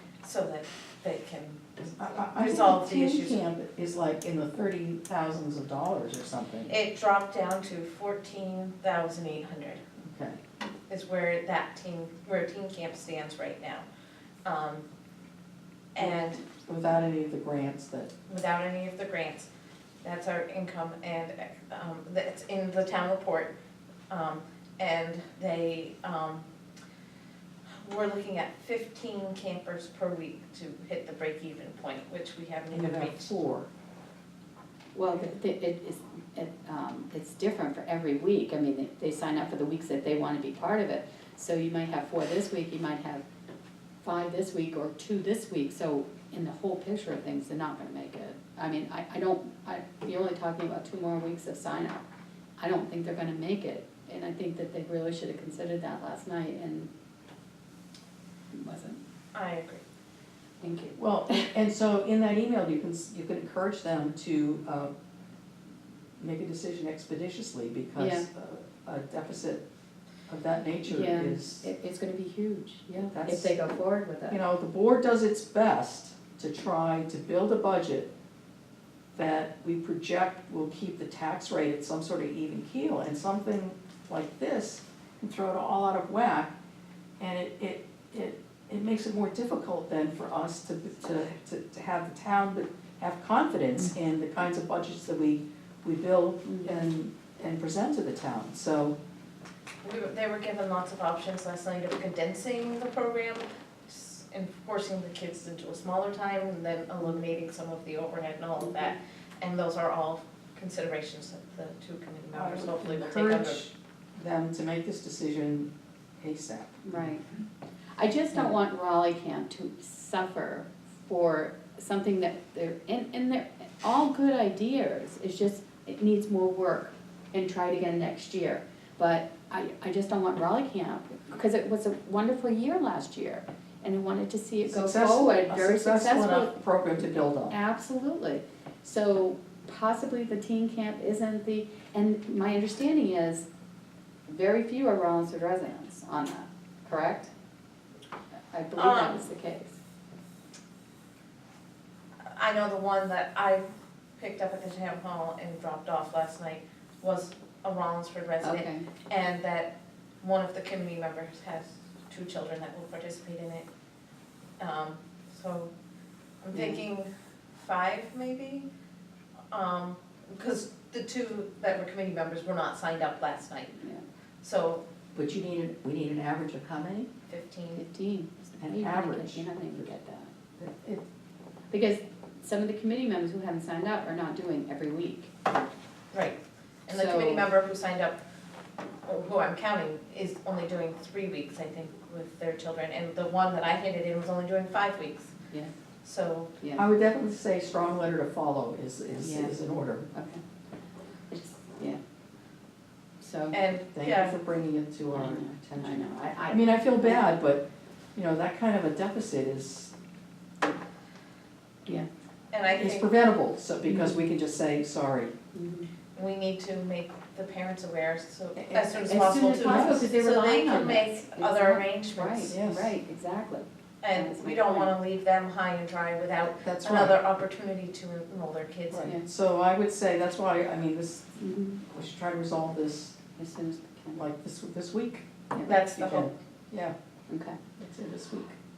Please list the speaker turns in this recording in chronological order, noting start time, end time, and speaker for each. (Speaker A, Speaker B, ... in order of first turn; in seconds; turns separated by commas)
Speaker A: 0.2-3.4, Speaker B: 2.0-6.7, Speaker A: 6.7-9.8, Speaker B: 10.0-10.4, Speaker A: 10.9-13.8, Speaker A: 14.4-14.8, Speaker A: 15.9-16.4, Speaker B: 16.0-18.1, Speaker A: 18.3-19.5, Speaker A: 20.0-23.5, Speaker A: 24.1-26.5, Speaker A: 27.8-33.4, Speaker B: 32.7-33.7, Speaker C: 34.9-43.2, Speaker C: 44.0-52.0, Speaker C: 52.6-56.9, Speaker C: 58.5-59.0, Speaker A: 59.3-59.8, Speaker C: 60.6-61.0, Speaker B: 61.0-64.9, Speaker B: 66.2-69.6, Speaker C: 68.0-68.3, Speaker B: 70.3-71.7, Speaker C: 70.8-74.4, Speaker B: 73.0-73.5, Speaker B: 74.3-78.1, Speaker B: 79.1-86.5, Speaker B: 87.2-99.0, Speaker C: 96.4-96.8, Speaker A: 99.8-113.6, Speaker C: 108.6-108.9, Speaker B: 112.3-117.1, Speaker C: 116.8-117.2, Speaker C: 118.0-136.5, Speaker B: 134.6-137.6, Speaker C: 137.5-143.4, Speaker C: 144.3-147.3, Speaker C: 148.5-149.8, Speaker A: 148.8-149.2, Speaker A: 152.3-153.6, Speaker A: 154.2-163.7, Speaker C: 158.4-158.8, Speaker A: 164.6-165.7, Speaker A: 166.4-168.7, Speaker C: 166.5-166.8, Speaker A: 169.5-173.8, Speaker C: 173.8-174.0, Speaker A: 174.4-174.8, Speaker B: 175.1-177.1, Speaker A: 177.3-177.8, Speaker C: 177.8-180.3, Speaker B: 178.6-179.9, Speaker B: 180.6-181.0, Speaker C: 181.7-185.3, Speaker A: 186.1-188.2, Speaker C: 186.9-187.5, Speaker A: 189.0-195.3, Speaker A: 196.0-196.5, Speaker C: 196.6-196.8, Speaker B: 196.8-200.1, Speaker C: 199.2-200.4, Speaker C: 201.3-202.0, Speaker C: 203.2-203.6, Speaker A: 203.5-204.4, Speaker B: 203.9-207.6, Speaker C: 205.1-207.3, Speaker B: 208.2-209.9, Speaker A: 212.5-213.1, Speaker B: 212.8-215.3, Speaker C: 213.9-214.2, Speaker C: 215.5-215.9, Speaker A: 216.1-222.6, Speaker B: 218.5-220.1, Speaker C: 219.1-224.9, Speaker B: 222.5-222.9, Speaker A: 224.0-229.1, Speaker B: 226.6-227.2, Speaker B: 228.9-233.2, Speaker C: 231.4-231.8, Speaker C: 233.3-234.2, Speaker B: 234.2-235.2, Speaker A: 235.6-236.3, Speaker B: 235.9-236.9, Speaker C: 237.3-237.6, Speaker B: 237.8-238.6